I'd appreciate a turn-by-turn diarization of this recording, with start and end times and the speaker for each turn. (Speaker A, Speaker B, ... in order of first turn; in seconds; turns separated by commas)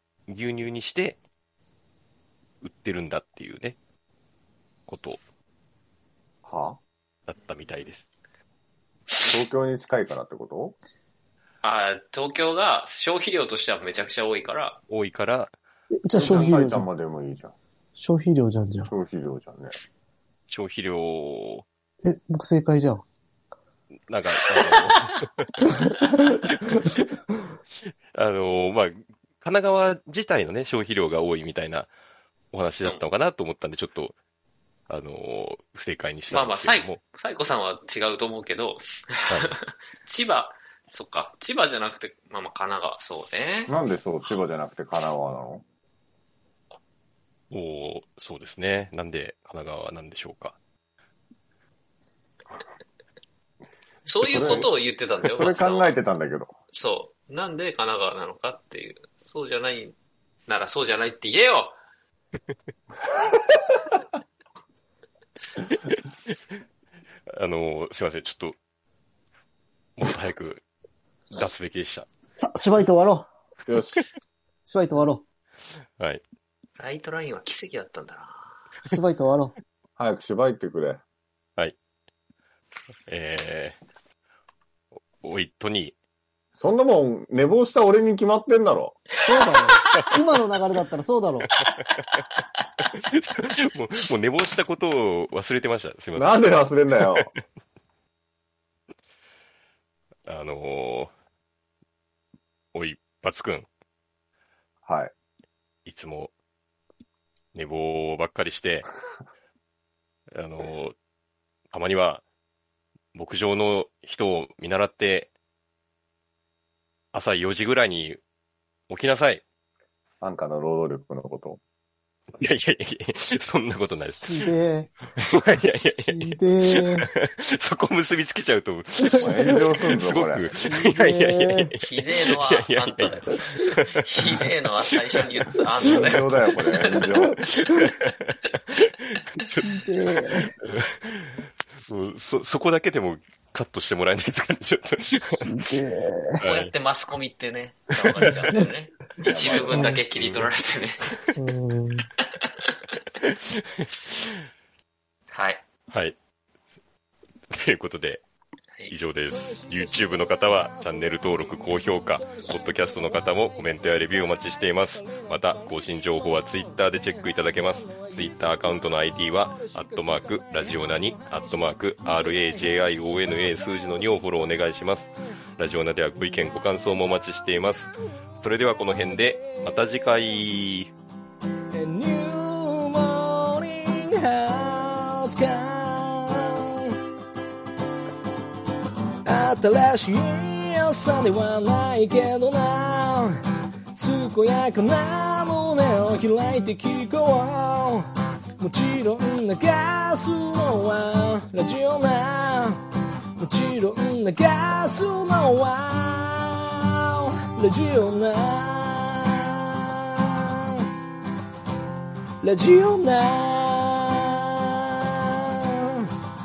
Speaker A: 0.3-1.2, Speaker A: 2.6-3.8, Speaker A: 4.9-5.2, Speaker B: 6.4-6.8, Speaker A: 7.3-8.0, Speaker B: 9.2-10.7, Speaker C: 11.6-14.8, Speaker A: 14.9-15.5, Speaker D: 15.9-16.9, Speaker B: 16.1-17.5, Speaker D: 18.0-18.9, Speaker B: 18.8-19.7, Speaker A: 20.5-21.6, Speaker D: 22.0-23.0, Speaker A: 24.1-25.5, Speaker D: 25.8-27.0, Speaker A: 26.7-26.9, Speaker A: 28.1-31.9, Speaker A: 32.5-34.1, Speaker A: 34.9-37.0, Speaker C: 36.3-43.7, Speaker A: 39.3-39.6, Speaker B: 43.7-45.6, Speaker A: 47.5-50.5, Speaker C: 54.0-56.0, Speaker A: 54.2-54.6, Speaker B: 54.2-54.6, Speaker B: 55.3-56.5, Speaker C: 56.7-59.9, Speaker C: 60.5-61.8, Speaker A: 65.7-66.6, Speaker A: 67.3-68.6, Speaker A: 70.0-70.6, Speaker A: 71.3-72.1, Speaker D: 72.3-73.3, Speaker B: 73.7-74.0, Speaker D: 74.7-75.2, Speaker C: 76.8-78.5, Speaker D: 78.8-79.5, Speaker B: 80.0-81.0, Speaker A: 83.1-83.8, Speaker A: 85.2-85.9, Speaker B: 86.6-89.0, Speaker D: 89.2-91.5, Speaker C: 89.3-90.1, Speaker A: 91.6-92.2, Speaker A: 92.9-97.4, Speaker B: 96.1-97.3, Speaker A: 100.3-101.1, Speaker A: 102.7-103.7, Speaker B: 104.8-105.1, Speaker A: 105.8-106.3, Speaker A: 107.5-108.9, Speaker A: 110.3-111.0, Speaker A: 111.7-112.2, Speaker A: 113.1-115.3, Speaker A: 117.1-118.2, Speaker A: 118.9-119.4, Speaker B: 120.2-121.6, Speaker A: 122.3-124.5, Speaker D: 124.2-124.9, Speaker A: 125.2-135.6, Speaker D: 126.1-127.1, Speaker D: 129.0-129.7, Speaker B: 129.1-130.5, Speaker D: 130.6-131.8, Speaker C: 131.8-137.1, Speaker B: 135.8-137.4, Speaker A: 137.4-145.7, Speaker D: 139.6-140.5, Speaker D: 145.4-146.4, Speaker A: 146.4-146.7, Speaker C: 146.4-151.2, Speaker A: 148.1-148.5, Speaker B: 149.2-150.0, Speaker D: 149.7-150.0, Speaker A: 150.1-150.5, Speaker D: 151.3-152.1, Speaker C: 152.4-152.7, Speaker A: 153.2-154.3, Speaker C: 155.3-155.6, Speaker A: 155.9-156.2, Speaker A: 157.5-158.2, Speaker A: 158.9-180.9, Speaker E: 159.6-161.2, Speaker E: 167.9-168.4, Speaker E: 181.7-186.9, Speaker E: 189.2-193.4, Speaker E: 193.9-198.0, Speaker E: 198.6-202.8, Speaker E: 203.4-210.9, Speaker E: 212.4-216.1